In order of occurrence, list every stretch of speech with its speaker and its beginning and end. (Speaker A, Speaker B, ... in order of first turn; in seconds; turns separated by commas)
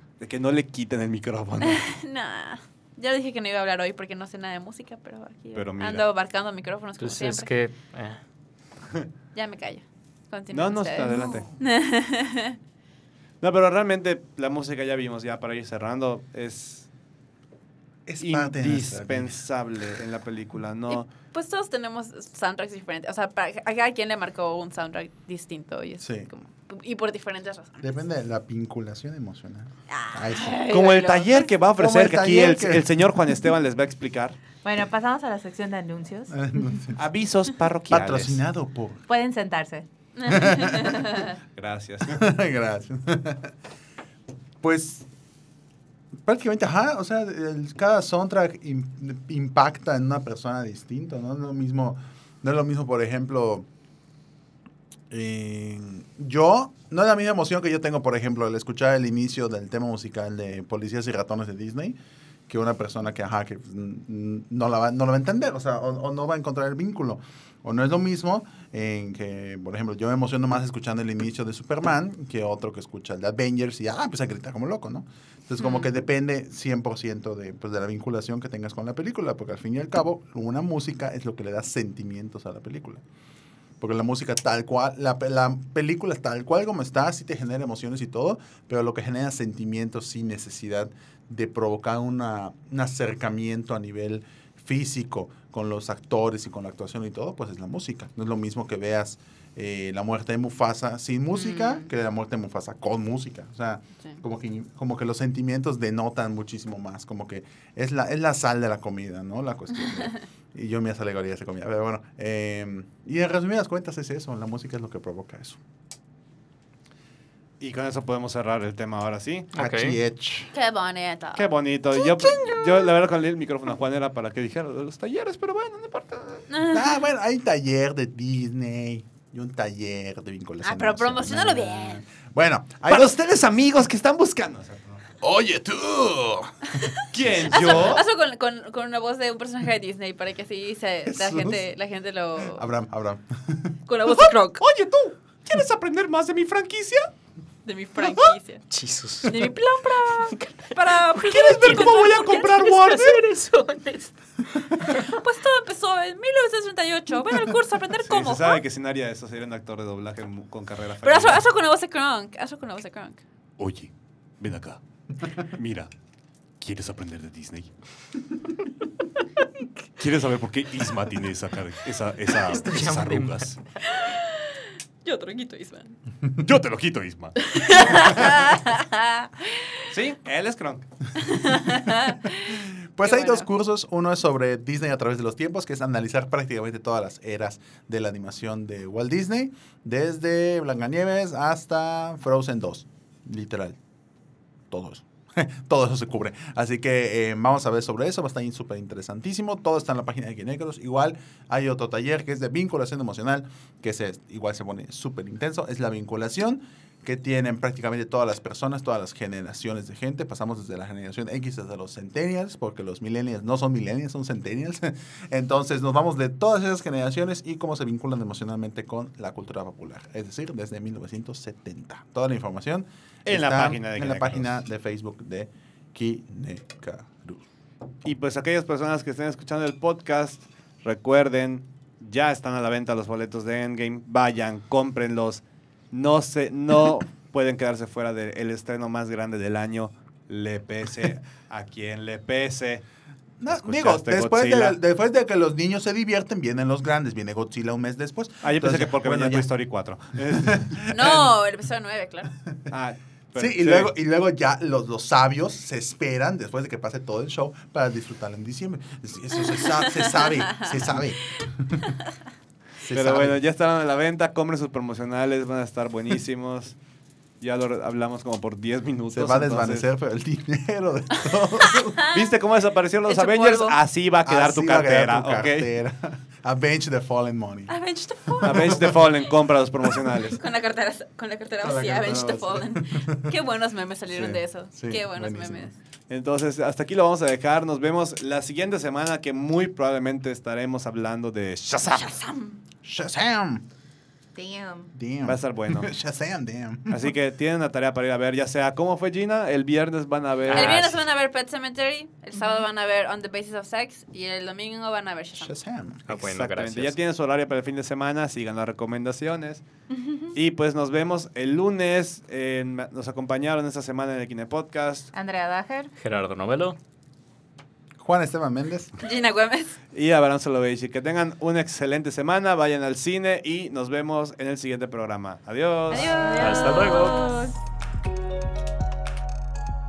Speaker A: 0.2-1.9, Speaker B: 1.6-7.5, Speaker A: 5.5-6.1, Speaker C: 7.0-8.2, Speaker B: 9.3-12.6, Speaker A: 10.5-11.5, Speaker A: 13.4-16.9, Speaker D: 18.1-19.4, Speaker A: 18.2-21.1, Speaker B: 20.9-27.8, Speaker D: 26.0-26.3, Speaker D: 27.8-30.6, Speaker B: 29.9-31.6, Speaker A: 30.7-34.4, Speaker D: 31.8-32.9, Speaker E: 34.6-36.4, Speaker D: 36.3-37.0, Speaker A: 37.0-38.4, Speaker D: 37.9-39.0, Speaker E: 39.1-39.8, Speaker B: 40.2-41.4, Speaker D: 40.3-40.9, Speaker A: 41.5-42.3, Speaker D: 42.1-43.5, Speaker D: 44.6-45.1, Speaker D: 46.2-53.7, Speaker D: 55.1-83.0, Speaker B: 75.6-75.9, Speaker D: 83.8-115.6, Speaker B: 101.3-101.9, Speaker B: 109.8-110.1, Speaker A: 117.6-119.5, Speaker C: 119.5-120.0, Speaker D: 119.5-120.5, Speaker B: 120.5-122.9, Speaker A: 121.3-126.5, Speaker B: 126.5-127.0, Speaker D: 126.6-133.1, Speaker B: 130.6-132.1, Speaker A: 132.9-135.1, Speaker D: 135.2-136.8, Speaker B: 137.0-142.7, Speaker A: 137.1-138.0, Speaker D: 137.7-138.0, Speaker D: 141.1-141.6, Speaker D: 142.6-143.8, Speaker B: 143.8-144.6, Speaker A: 144.1-147.1, Speaker B: 147.6-148.7, Speaker C: 148.7-155.1, Speaker B: 149.2-152.6, Speaker A: 151.3-153.2, Speaker B: 154.9-158.6, Speaker A: 158.0-161.4, Speaker B: 161.0-163.2, Speaker A: 163.6-164.8, Speaker A: 165.3-165.9, Speaker A: 166.6-167.8, Speaker A: 170.0-173.6, Speaker C: 172.5-173.6, Speaker B: 175.0-176.0, Speaker A: 176.4-178.5, Speaker B: 177.5-179.9, Speaker A: 179.9-180.9, Speaker B: 181.2-183.5, Speaker D: 182.9-193.8, Speaker D: 194.7-227.5, Speaker A: 223.2-224.6, Speaker A: 228.1-242.8, Speaker D: 243.4-249.5, Speaker A: 243.5-244.8, Speaker A: 248.4-251.2, Speaker D: 250.3-251.2, Speaker B: 250.9-252.3, Speaker A: 252.7-253.9, Speaker D: 253.3-261.9, Speaker B: 260.2-260.8, Speaker D: 262.9-263.4, Speaker A: 262.9-266.8, Speaker A: 267.4-269.9, Speaker D: 269.1-271.9, Speaker B: 271.8-272.3, Speaker A: 272.1-275.7, Speaker B: 273.1-273.8, Speaker D: 274.2-277.8, Speaker B: 277.7-279.0, Speaker D: 278.4-279.0, Speaker A: 278.4-280.4, Speaker B: 280.4-285.8, Speaker D: 281.6-283.3, Speaker A: 284.1-284.4, Speaker D: 284.7-285.7, Speaker A: 286.1-292.1, Speaker B: 291.9-292.6, Speaker D: 292.8-293.6, Speaker E: 294.3-294.9, Speaker D: 294.9-297.0, Speaker A: 295.2-295.9, Speaker A: 296.9-300.9, Speaker C: 300.5-301.0, Speaker B: 300.5-305.6, Speaker D: 305.4-306.1, Speaker C: 306.1-307.0, Speaker A: 306.1-309.6, Speaker A: 310.3-315.1, Speaker E: 315.1-315.9, Speaker C: 316.0-316.8, Speaker D: 318.0-318.9, Speaker B: 319.0-319.8, Speaker A: 319.9-326.2, Speaker B: 325.9-327.5, Speaker E: 326.2-327.4, Speaker C: 326.4-327.3